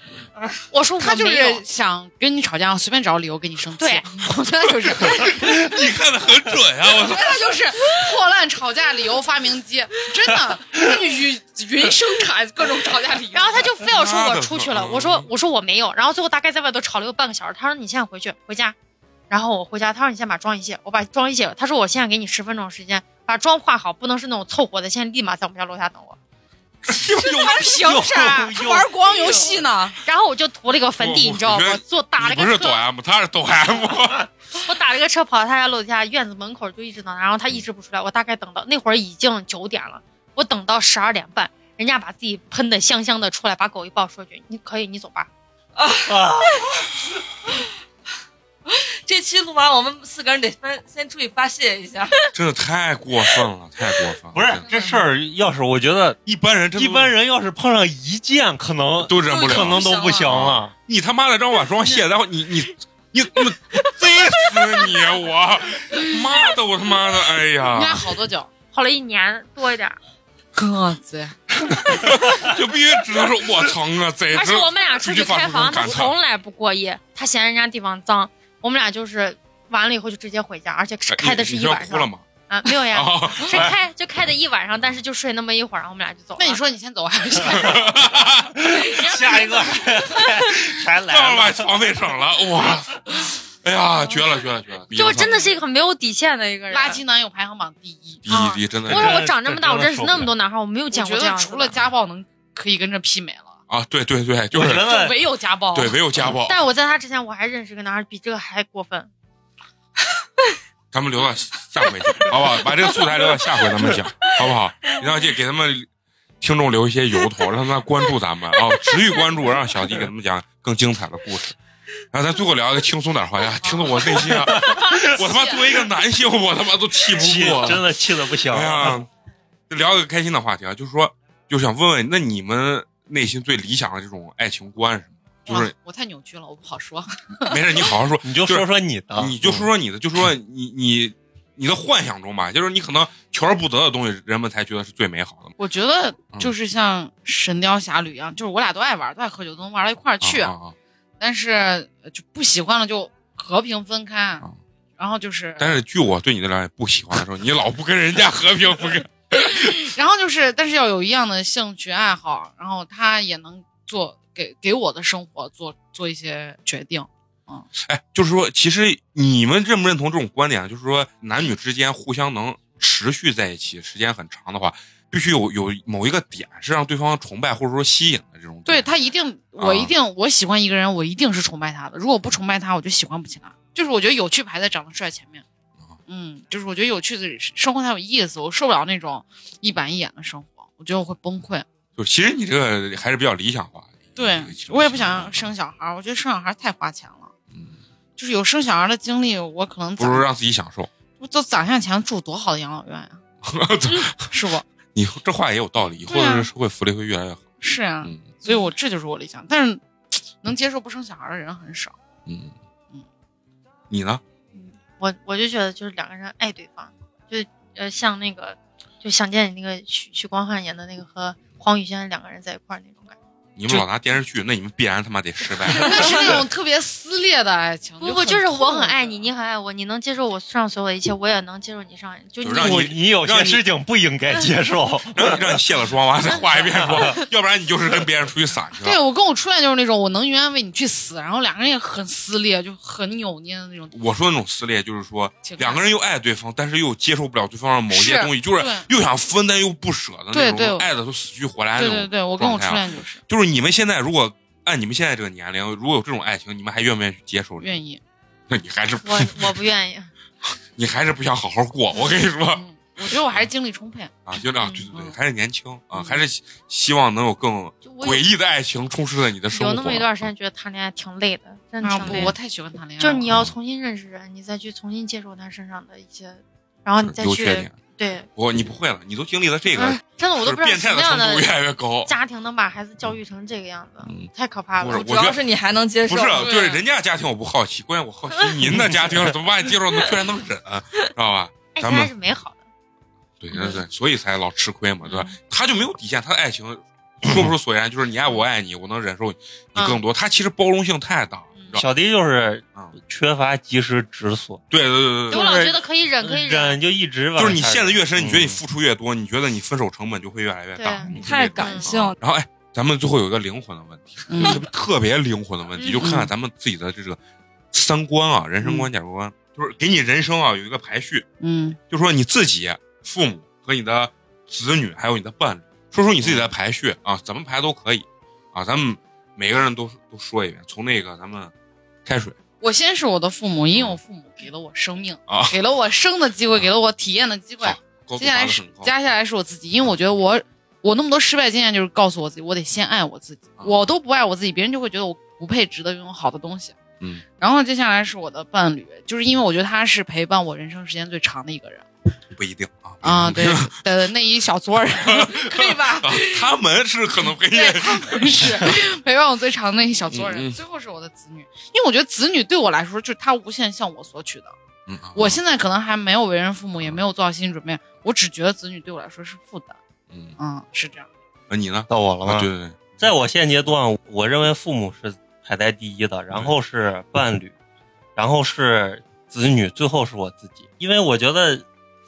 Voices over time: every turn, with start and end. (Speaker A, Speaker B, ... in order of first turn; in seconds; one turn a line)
Speaker A: 0.7-1.6
Speaker B: 1.0-5.6
Speaker A: 3.8-4.0
Speaker C: 4.9-7.5
Speaker B: 6.9-13.7
Speaker A: 13.3-18.7
Speaker C: 13.8-15.3
Speaker A: 19.3-26.2
Speaker C: 26.8-28.1
Speaker B: 27.1-30.0
Speaker D: 27.8-28.9
Speaker A: 30.0-32.8
Speaker C: 31.0-34.3
Speaker A: 34.6-45.3
Speaker E: 45.8-46.8
Speaker D: 46.0-46.8
Speaker E: 48.7-52.3
Speaker C: 52.3-54.7
Speaker D: 54.3-56.2
Speaker C: 56.2-57.1
Speaker D: 56.7-60.7
Speaker C: 59.0-68.0
Speaker E: 59.3-60.3
Speaker B: 67.7-68.5
Speaker A: 68.7-70.0
Speaker B: 70.5-71.3
Speaker C: 71.8-76.1
Speaker A: 74.3-86.6
Speaker C: 81.1-82.2
Speaker C: 82.8-83.7
Speaker B: 86.4-88.1
Speaker C: 87.5-88.6
Speaker D: 88.5-91.8
Speaker A: 89.1-89.5
Speaker C: 90.5-95.5
Speaker A: 94.9-97.0
Speaker B: 96.7-98.2
Speaker C: 98.2-99.3
Speaker A: 98.3-101.8
Speaker D: 98.8-100.3
Speaker B: 100.9-103.6
Speaker C: 103.7-104.8
Speaker D: 104.5-105.2
Speaker B: 104.7-106.0
Speaker C: 105.7-106.6
Speaker A: 106.3-109.1
Speaker C: 110.9-115.9
Speaker C: 116.4-121.6
Speaker C: 122.1-127.9
Speaker B: 123.6-124.0
Speaker D: 124.3-125.1
Speaker D: 127.1-129.1
Speaker C: 128.4-129.1
Speaker C: 129.7-135.7
Speaker B: 135.5-137.6
Speaker C: 137.4-145.5
Speaker D: 138.2-139.7
Speaker B: 145.6-150.5
Speaker C: 150.2-150.7
Speaker B: 151.2-154.4
Speaker B: 155.0-155.8
Speaker C: 155.6-159.9
Speaker B: 159.7-167.7
Speaker C: 167.8-178.9
Speaker B: 178.7-185.4
Speaker C: 179.6-179.9
Speaker B: 186.1-191.7
Speaker C: 192.0-195.5
Speaker B: 194.2-197.3
Speaker B: 198.2-200.3
Speaker C: 200.0-200.9
Speaker B: 201.2-203.2
Speaker C: 203.4-204.3
Speaker B: 204.1-204.6
Speaker C: 204.9-207.4
Speaker B: 206.1-206.5
Speaker B: 207.6-211.9
Speaker C: 208.0-208.3
Speaker C: 212.3-212.5
Speaker C: 213.9-214.2
Speaker A: 214.5-223.2
Speaker C: 223.6-226.4
Speaker B: 225.7-229.2
Speaker A: 228.0-232.9
Speaker C: 232.4-233.6
Speaker D: 232.6-235.6
Speaker C: 235.1-239.0
Speaker A: 236.3-236.9
Speaker D: 236.4-237.2
Speaker B: 238.8-243.9
Speaker C: 243.9-257.7
Speaker B: 245.4-245.9
Speaker B: 247.9-248.9
Speaker B: 250.3-250.9
Speaker B: 251.7-253.2
Speaker B: 257.6-258.0
Speaker C: 258.5-259.5
Speaker A: 259.0-260.1
Speaker C: 260.7-263.4
Speaker B: 262.5-264.1
Speaker C: 264.3-270.3
Speaker A: 264.6-264.9
Speaker A: 267.8-268.2
Speaker A: 269.5-272.3
Speaker B: 271.8-273.3
Speaker C: 272.0-272.3
Speaker A: 273.0-278.3
Speaker C: 273.3-273.5
Speaker C: 277.0-277.7
Speaker C: 278.4-282.1
Speaker A: 279.7-281.5
Speaker A: 282.0-285.2
Speaker C: 284.0-284.3
Speaker C: 284.8-285.4
Speaker E: 284.9-286.5
Speaker C: 286.1-292.1
Speaker B: 286.4-286.8
Speaker A: 291.7-292.6
Speaker C: 293.4-301.9
Speaker A: 295.0-295.3
Speaker D: 301.7-304.6
Speaker C: 304.7-305.7
Speaker A: 305.3-306.8
Speaker D: 305.3-308.6
Speaker C: 307.4-317.2
Speaker A: 310.8-311.9
Speaker E: 311.1-312.1
Speaker B: 314.3-314.6
Speaker B: 316.0-316.3
Speaker C: 317.7-321.2
Speaker B: 318.6-318.9
Speaker B: 321.4-321.8
Speaker C: 321.9-331.5
Speaker C: 332.0-332.4
Speaker B: 332.6-346.8
Speaker C: 333.7-334.0
Speaker C: 335.3-335.5
Speaker C: 337.6-338.9
Speaker C: 343.6-343.9
Speaker B: 347.4-351.9
Speaker C: 352.3-353.7
Speaker B: 353.0-356.5
Speaker C: 355.0-358.7
Speaker B: 357.2-364.5
Speaker C: 360.1-360.6
Speaker C: 364.9-365.4
Speaker B: 365.1-369.8
Speaker C: 370.1-370.4
Speaker B: 370.4-371.1
Speaker C: 371.5-373.0
Speaker D: 371.9-377.5
Speaker D: 378.1-381.6